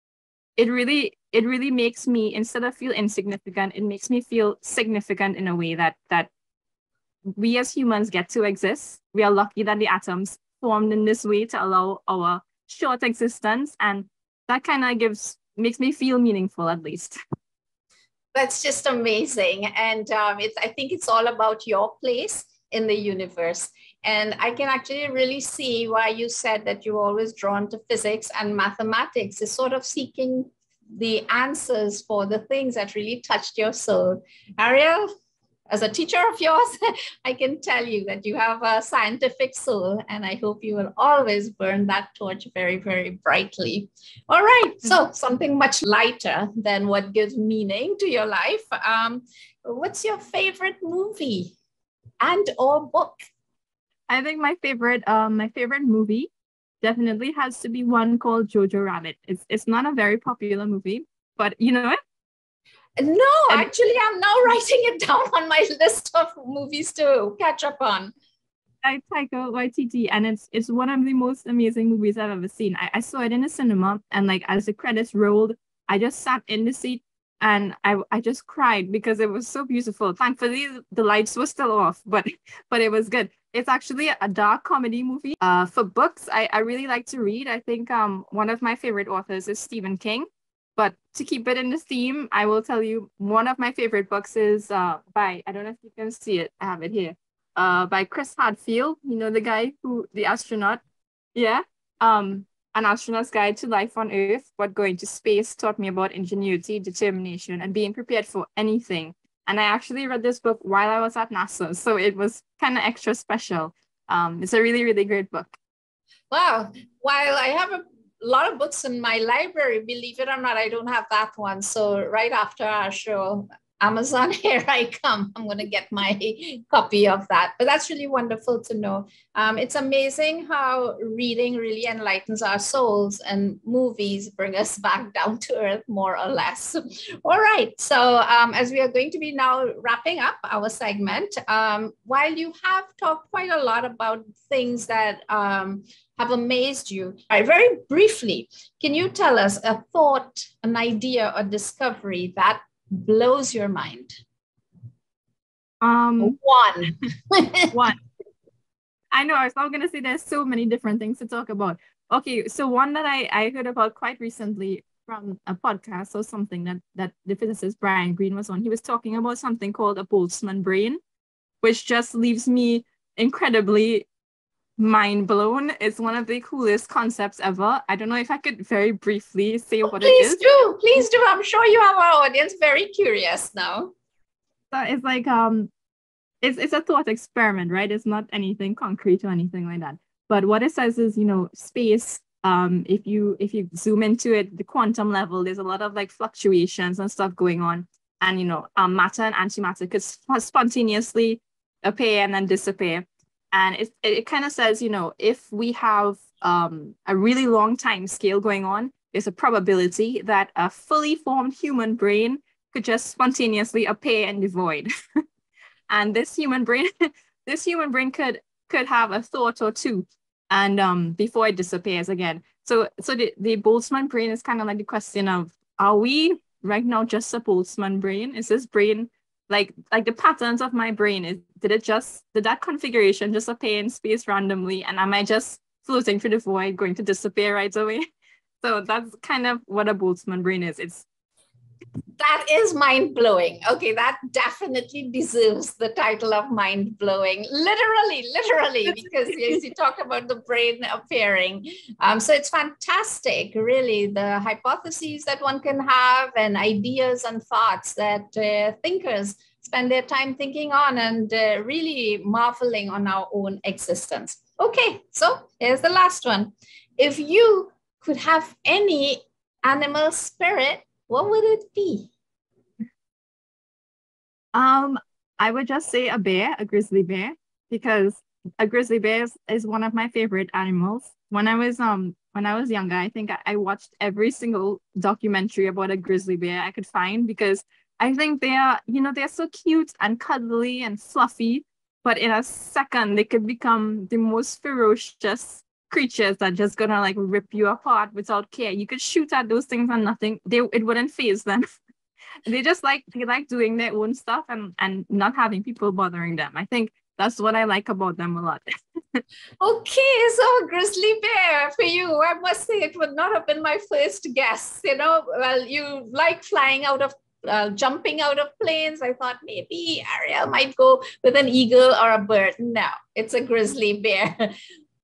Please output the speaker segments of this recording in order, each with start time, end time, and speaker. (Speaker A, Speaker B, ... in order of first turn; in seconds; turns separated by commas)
Speaker A: 0.6-6.3, Speaker A: 7.3-17.2, Speaker B: 18.3-35.1, Speaker B: 35.7-51.6, Speaker B: 52.2-53.2, Speaker A: 54.1-56.3, Speaker A: 56.8-62.0, Speaker B: 63.0-68.1, Speaker A: 68.8-100.8, Speaker A: 101.3-115.6, Speaker B: 116.3-154.2, Speaker A: 155.8-156.4, Speaker B: 156.2-157.8, Speaker A: 157.7-158.0, Speaker A: 159.1-171.0, Speaker A: 171.6-174.1, Speaker A: 174.8-180.4, Speaker B: 179.8-183.9, Speaker A: 184.7-185.7, Speaker A: 186.4-214.9, Speaker A: 215.9-238.0, Speaker A: 238.6-241.1, Speaker B: 242.2-272.1, Speaker A: 274.5-301.6, Speaker A: 302.5-309.2, Speaker B: 309.6-324.5